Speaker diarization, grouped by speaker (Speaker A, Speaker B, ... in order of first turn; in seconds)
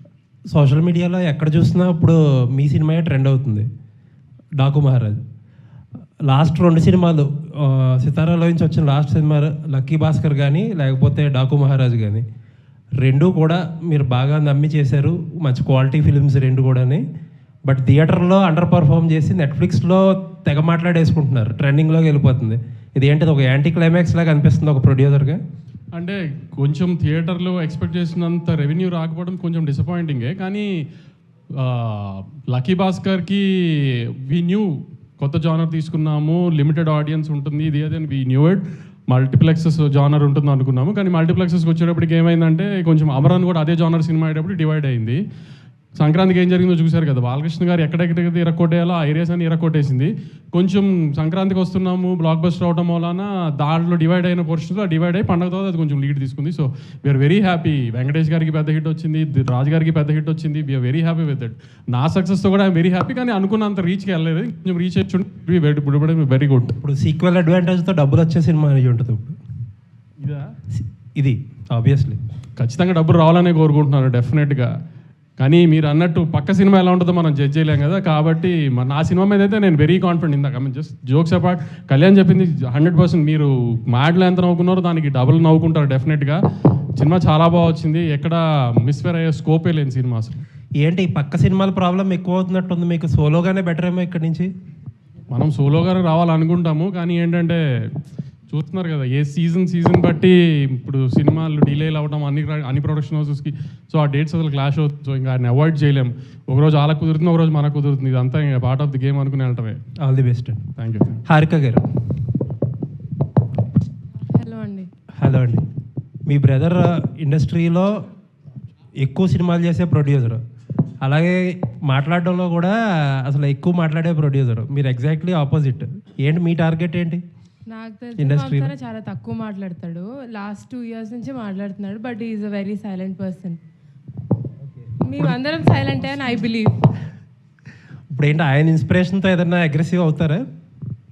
Speaker A: 0.5-3.7, 4.6-5.2, 6.3-12.2, 13.0-17.0, 17.7-25.4, 66.8-69.4, 70.8-72.2, 90.8-94.5, 110.0-110.7, 111.3-111.8, 115.2-115.7, 116.3-117.9, 119.0-120.4, 121.0-127.2, 128.2-128.7, 138.1-140.5
Speaker B: 25.9-30.7, 31.6-33.4, 34.3-34.7, 35.2-45.2, 46.0-66.7, 70.2-70.5, 72.6-74.7, 75.4-86.4, 87.0-90.4, 95.3-97.6, 98.5-109.8, 110.8-111.2
Speaker C: 114.3-114.9, 127.7-133.6, 135.0-136.7